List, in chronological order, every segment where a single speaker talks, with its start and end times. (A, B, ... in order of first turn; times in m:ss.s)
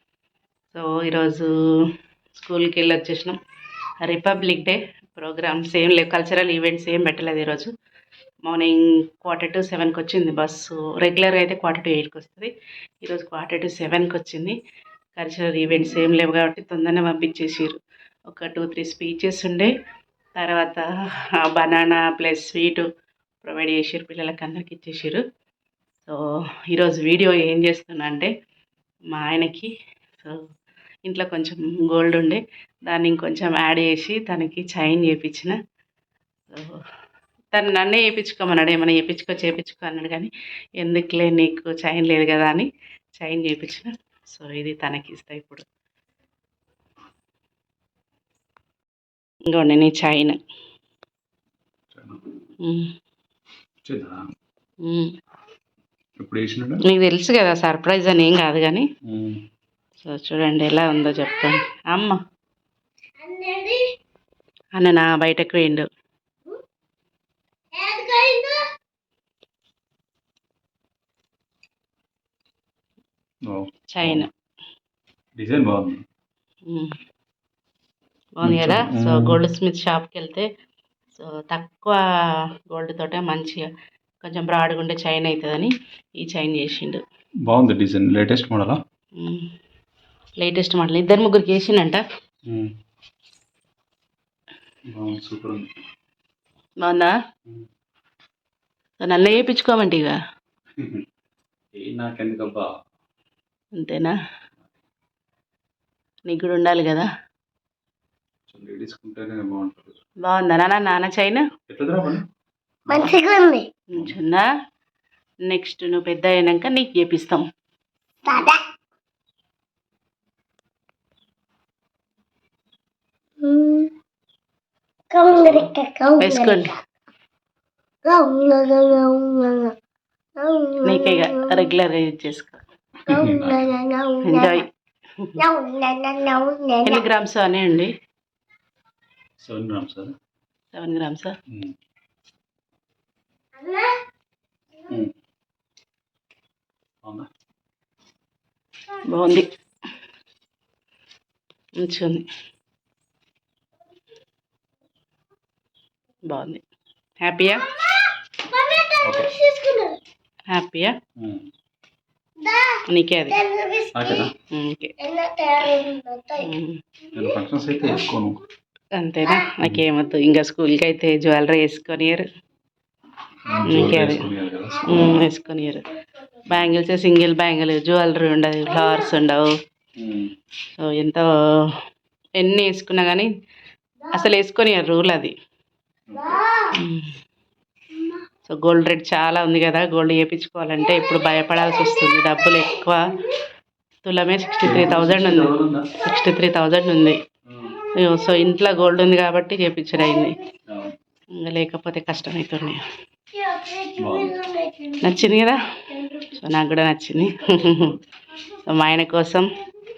0:00.7-0:03.4 A
0:04.0-0:07.7 A
0:08.4-0:12.5 A
0:13.0-0:14.6 A
0:15.2-0:19.7 A
0:20.4-0:20.8 A
0:21.4-0:22.9 A
0:23.4-0:25.2 A
0:26.7-0:28.3 A
0:29.1-0:30.4 A
0:31.0-0:35.6 A
0:36.5-0:36.8 A
0:37.5-0:45.6 A
0:49.5-0:50.4 A
0:51.9-0:52.2 B
0:52.6-0:52.9 A
0:53.9-0:54.2 B
0:54.8-0:55.1 A
0:56.2-0:56.8 B
0:56.8-0:58.9 A
0:59.0-0:59.4 B
1:00.0-1:02.2 A
1:03.2-1:03.9 C
1:04.8-1:05.9 A
1:07.7-1:08.7 C
1:13.5-1:14.3 B
1:13.9-1:14.3 A
1:15.4-1:16.0 B
1:16.7-1:16.9 A
1:18.4-1:20.5 A
1:18.4-1:19.4 B
1:21.2-1:22.0 A
1:22.7-1:23.7 A
1:24.2-1:27.0 A
1:27.5-1:28.8 B
1:29.2-1:29.5 A
1:30.4-1:32.0 A
1:34.9-1:35.7 B
1:36.8-1:37.1 A
1:39.0-1:40.2 A
1:40.8-1:41.0 B
1:41.8-1:42.7 B
1:43.8-1:44.2 A
1:46.3-1:47.1 A
1:48.5-1:50.0 B
1:50.2-1:51.5 A
1:51.7-1:52.2 B
1:52.9-1:53.1 B
1:52.9-1:53.7 C
1:53.9-1:54.5 A
1:55.4-1:57.5 A
1:58.2-1:58.6 C
2:03.4-2:03.9 C
2:05.1-2:06.7 C
2:05.3-2:05.6 B
2:06.2-2:06.8 A
2:08.1-2:09.8 C
2:10.4-2:11.6 C
2:10.8-2:12.6 A
2:13.1-2:13.7 B
2:13.1-2:14.6 C
2:14.2-2:14.7 A
2:15.4-2:17.0 C
2:16.8-2:17.9 A
2:19.4-2:20.2 B
2:20.7-2:21.4 A
2:21.5-2:21.8 B
2:23.6-2:24.0 C
2:29.1-2:29.5 A
2:31.8-2:32.2 A
2:36.3-2:36.6 A
2:37.2-2:37.7 A
2:37.9-2:40.0 C
2:39.0-2:39.3 B
2:40.5-2:40.9 A
2:41.2-2:41.5 B
2:42.4-2:44.2 C
2:42.9-2:43.4 A
2:43.9-2:44.3 B
2:44.5-2:44.9 A
2:45.0-2:46.5 C
2:46.4-2:46.8 A
2:47.1-2:48.4 B
2:49.0-2:52.2 A
2:53.4-2:55.3 B
2:53.6-2:53.8 C
2:53.7-2:54.3 A
2:54.9-2:55.9 A
2:56.5-2:59.5 A
3:00.0-3:00.3 B
3:00.8-3:01.3 A
3:02.4-3:03.3 A
3:04.1-3:05.3 A
3:06.1-3:06.4 B
3:06.4-3:06.7 C
3:06.7-3:07.1 A
3:08.5-3:13.1 A
3:14.0-3:17.2 A
3:14.6-3:15.9 B
3:17.5-3:17.8 B
3:17.9-3:20.4 A
3:20.7-3:21.0 B
3:21.4-3:22.8 A
3:23.4-3:25.0 C
3:24.0-3:24.4 B
3:25.0-3:28.0 A
3:28.7-3:29.5 A